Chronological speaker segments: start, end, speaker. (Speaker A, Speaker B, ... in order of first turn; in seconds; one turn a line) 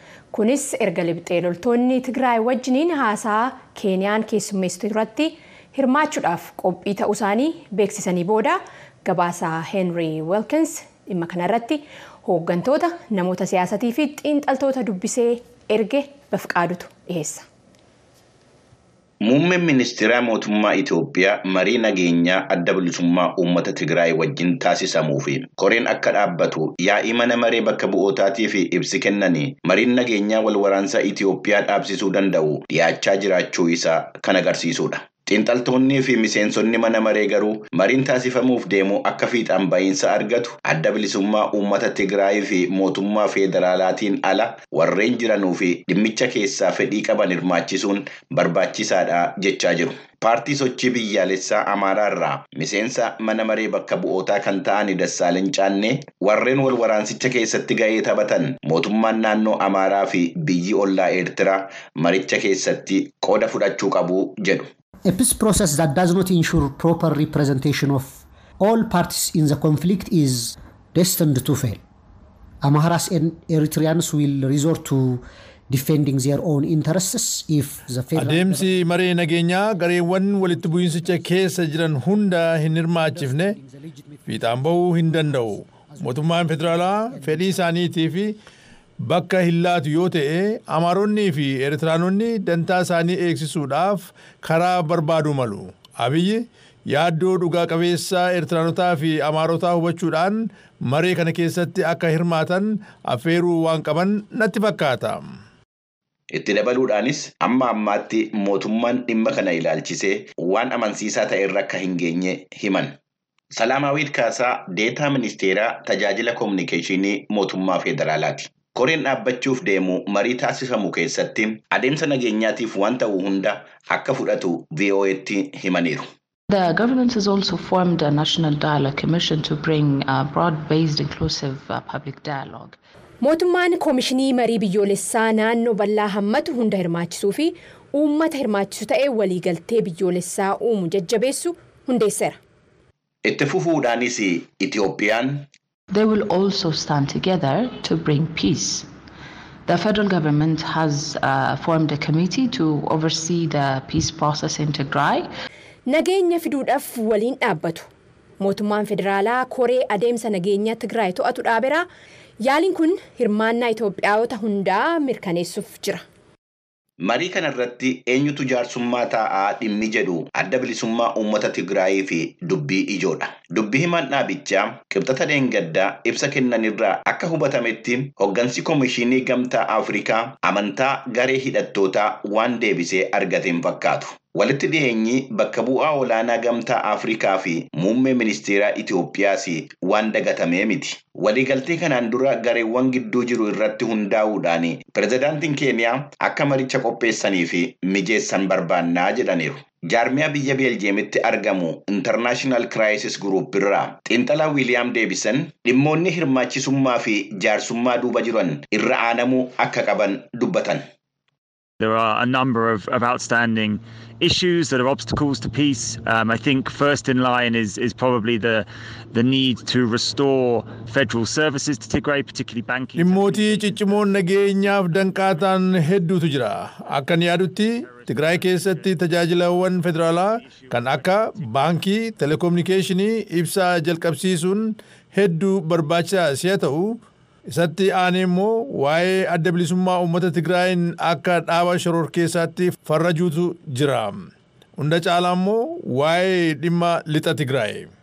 Speaker A: 0.3-17.4
Speaker B: 19.2-64.7
Speaker C: 65.1-71.8
Speaker C: 72.6-78.7
Speaker D: 78.2-83.6
Speaker C: 80.5-81.6
Speaker C: 83.0-87.6
Speaker D: 84.3-88.3
Speaker D: 89.0-105.2
Speaker B: 106.3-112.9
Speaker B: 113.5-126.0
Speaker E: 126.5-132.8
Speaker A: 133.2-142.4
Speaker B: 143.2-145.5
Speaker E: 145.9-148.9
Speaker E: 149.7-155.3
Speaker A: 155.9-157.9
Speaker A: 158.4-161.9
Speaker A: 162.4-166.0
Speaker B: 167.0-210.8
Speaker F: 211.8-224.1
Speaker D: 222.9-237.0
Speaker F: 228.2-228.9
Speaker F: 230.6-231.7
Speaker D: 237.5-244.2
Speaker D: 244.8-247.9